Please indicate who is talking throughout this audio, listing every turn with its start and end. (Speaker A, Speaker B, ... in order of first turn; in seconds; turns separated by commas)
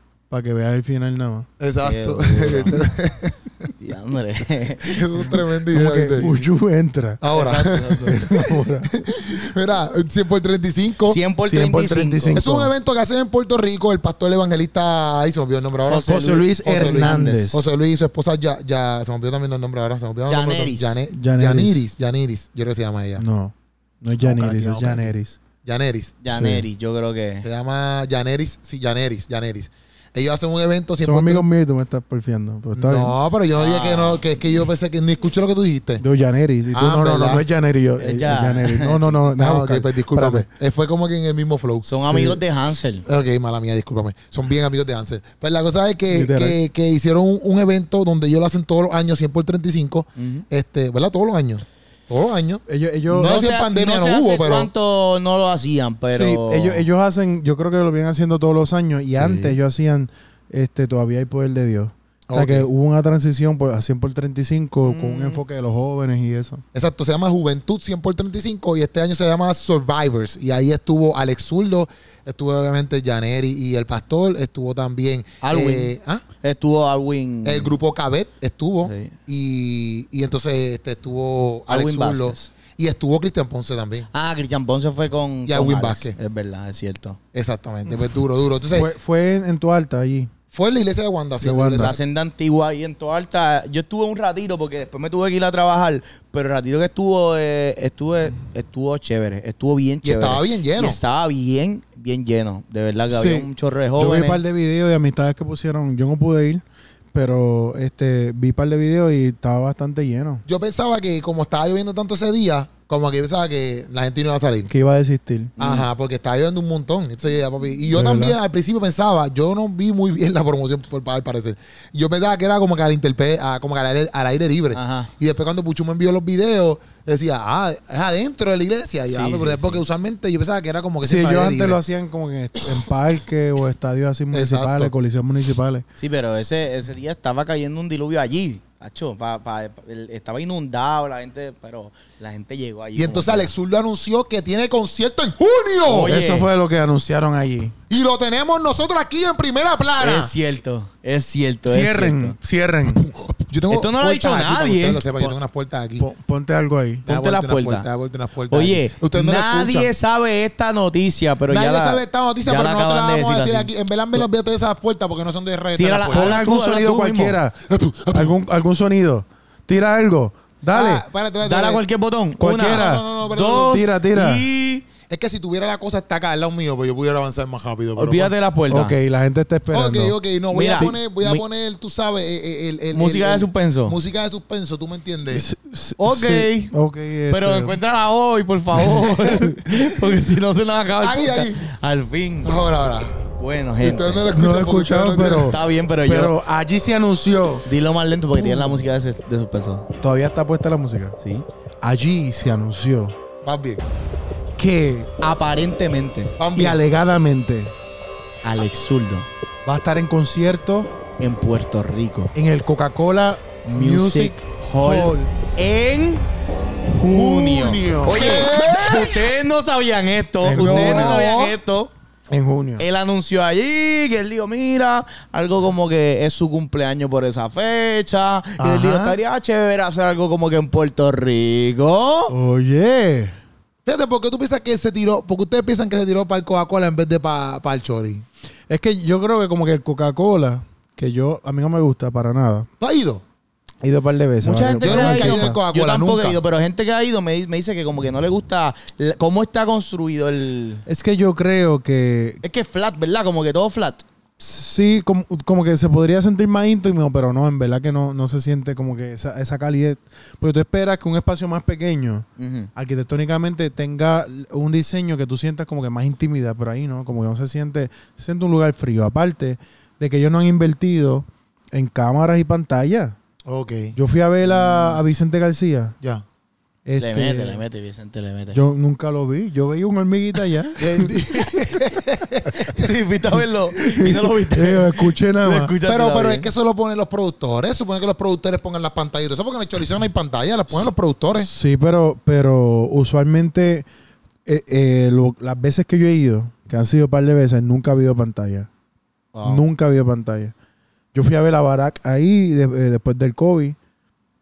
Speaker A: 0.3-1.5, Speaker B: 1.6-3.7, Speaker C: 1.8-2.8, Speaker C: 3.8-5.4, Speaker B: 4.8-6.3, Speaker A: 5.7-7.2, Speaker B: 7.2-8.3, Speaker C: 7.3-8.2, Speaker A: 8.0-8.9, Speaker B: 8.9-11.2, Speaker C: 11.1-12.4, Speaker A: 11.4-12.7, Speaker B: 12.3-16.1, Speaker C: 15.9-17.5, Speaker A: 16.1-17.7, Speaker B: 16.6-23.2, Speaker C: 20.3-21.0, Speaker A: 21.1-21.8, Speaker A: 23.2-25.4, Speaker B: 24.2-26.1, Speaker C: 26.2-27.5, Speaker A: 26.3-26.6, Speaker B: 27.4-31.4, Speaker A: 31.0-33.1, Speaker B: 32.8-36.0, Speaker C: 33.5-34.2, Speaker A: 36.0-40.5, Speaker B: 36.7-37.4, Speaker C: 38.0-39.1, Speaker B: 39.4-41.9, Speaker C: 41.9-43.0, Speaker A: 42.0-42.4, Speaker B: 43.0-54.7, Speaker A: 46.1-46.6, Speaker C: 50.2-50.4, Speaker A: 52.7-53.5, Speaker C: 53.2-56.9, Speaker A: 56.1-66.6, Speaker B: 59.1-59.6, Speaker B: 62.3-62.7, Speaker C: 64.8-65.4, Speaker B: 66.7-76.2, Speaker C: 75.4-77.7, Speaker B: 77.4-84.1, Speaker C: 78.8-79.1, Speaker C: 81.7-82.5, Speaker C: 84.1-87.2, Speaker B: 85.5-86.1, Speaker B: 87.3-88.9, Speaker A: 88.7-90.3, Speaker B: 90.5-92.0, Speaker A: 91.4-91.9, Speaker C: 91.8-104.4, Speaker B: 100.0-101.0, Speaker A: 103.1-110.4, Speaker B: 110.5-114.7, Speaker A: 114.7-115.5, Speaker C: 115.6-115.9, Speaker B: 115.6-131.8, Speaker A: 117.9-118.4, Speaker C: 124.8-125.1, Speaker C: 129.1-129.8, Speaker A: 131.0-135.8, Speaker B: 134.3-134.9, Speaker C: 136.0-143.5, Speaker B: 142.9-146.2, Speaker C: 145.9-146.5, Speaker A: 146.0-147.7, Speaker B: 147.9-150.3, Speaker C: 150.0-152.4, Speaker A: 151.7-153.1, Speaker B: 152.9-156.1, Speaker C: 153.7-155.3, Speaker A: 156.0-157.1, Speaker B: 157.1-159.9, Speaker C: 157.1-157.9, Speaker C: 158.5-163.7, Speaker B: 161.5-166.4, Speaker C: 165.7-167.4, Speaker A: 166.1-167.6, Speaker B: 167.7-168.3, Speaker A: 168.1-171.1, Speaker B: 170.7-171.8, Speaker C: 171.4-174.9, Speaker A: 172.4-174.5, Speaker B: 172.6-173.9, Speaker B: 175.1-178.3, Speaker C: 177.9-178.9, Speaker A: 178.7-180.2, Speaker B: 179.7-185.4, Speaker C: 180.5-181.4, Speaker C: 182.9-184.0, Speaker A: 185.3-187.8, Speaker C: 186.0-186.8, Speaker C: 187.3-192.6, Speaker A: 188.9-189.5, Speaker B: 191.0-191.7, Speaker B: 192.4-193.3, Speaker C: 193.4-194.3, Speaker B: 193.8-195.6, Speaker A: 194.3-197.7, Speaker C: 195.2-196.3, Speaker C: 197.7-199.9, Speaker A: 198.3-198.8, Speaker A: 200.0-201.2, Speaker A: 201.8-203.1, Speaker B: 203.4-203.8, Speaker A: 204.6-205.1, Speaker C: 205.2-206.4, Speaker B: 206.4-206.8, Speaker A: 206.6-207.7, Speaker C: 208.4-209.3, Speaker A: 209.7-210.9, Speaker C: 211.2-212.3, Speaker A: 212.3-215.3, Speaker C: 213.7-216.2, Speaker A: 216.9-218.4, Speaker C: 217.0-221.9, Speaker B: 218.0-219.3, Speaker A: 220.4-221.2, Speaker B: 220.6-221.6, Speaker A: 222.3-222.8, Speaker C: 222.8-232.3, Speaker B: 228.6-229.2, Speaker A: 232.3-233.3, Speaker B: 233.9-238.2, Speaker A: 238.7-242.7, Speaker B: 242.8-243.2, Speaker A: 243.8-245.6, Speaker C: 244.4-250.8, Speaker B: 244.8-246.4, Speaker A: 250.9-252.4, Speaker C: 252.4-254.0, Speaker A: 254.4-273.1, Speaker C: 262.4-262.7, Speaker B: 273.5-274.0, Speaker A: 273.9-276.0, Speaker C: 274.5-275.0, Speaker A: 276.9-277.6, Speaker C: 277.0-278.6, Speaker A: 278.5-281.1, Speaker B: 280.8-282.9, Speaker C: 282.6-286.5, Speaker A: 283.8-285.7, Speaker B: 285.9-291.5, Speaker A: 291.4-293.9, Speaker A: 294.5-298.7, Speaker C: 299.3-299.6, Speaker A: 299.4-300.5, Speaker A: 301.1-303.8